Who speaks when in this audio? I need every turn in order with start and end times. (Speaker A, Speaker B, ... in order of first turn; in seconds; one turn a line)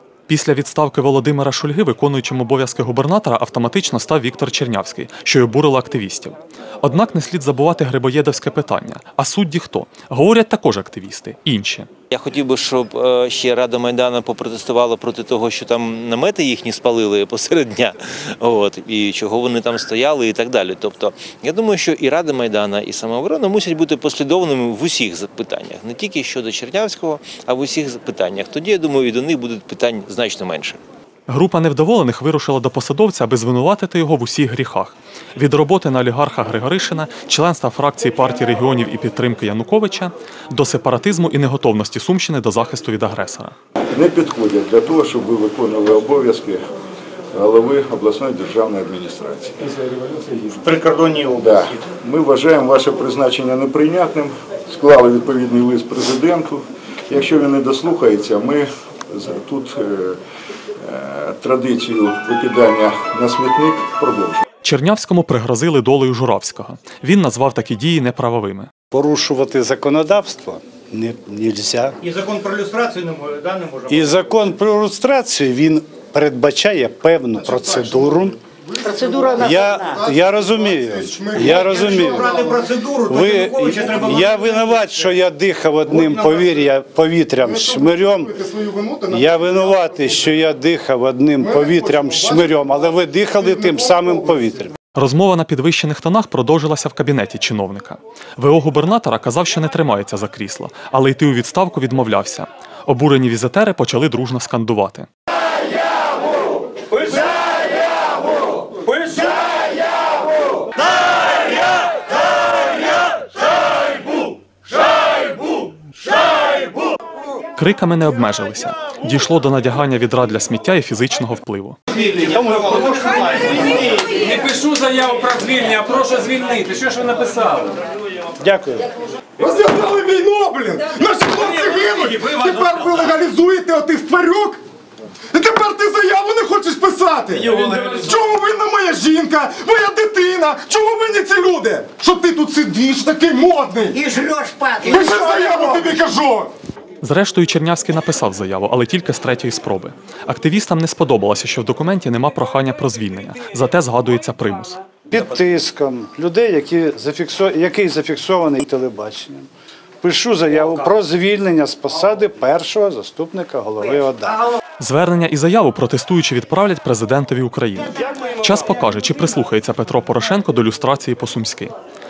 Speaker A: 0.3-11.9
Speaker B: 12.1-30.8
Speaker A: 31.3-43.5
Speaker C: 43.9-46.6
Speaker C: 47.3-49.6
Speaker B: 50.6-51.5
Speaker C: 51.4-60.2
Speaker C: 60.8-64.4
Speaker A: 64.6-68.7
Speaker D: 68.9-72.0
Speaker E: 72.0-74.2
Speaker D: 73.9-78.4
Speaker F: 77.4-82.4
Speaker G: 79.2-79.7
Speaker D: 79.2-82.5
Speaker E: 81.4-85.1
Speaker D: 83.0-88.3
Speaker E: 85.9-86.6
Speaker F: 87.4-90.3
Speaker D: 89.1-94.7
Speaker F: 91.4-92.7
Speaker F: 93.4-94.3
Speaker A: 94.9-105.1
Speaker A: 117.6-121.8
Speaker D: 122.0-124.3
Speaker H: 124.2-127.6
Speaker D: 128.4-128.9
Speaker F: 129.4-134.6
Speaker F: 135.3-144.0
Speaker G: 144.0-145.3
Speaker F: 144.8-146.5
Speaker A: 147.0-154.8
Speaker D: 155.1-159.5
Speaker D: 160.0-164.5
Speaker A: 164.8-171.7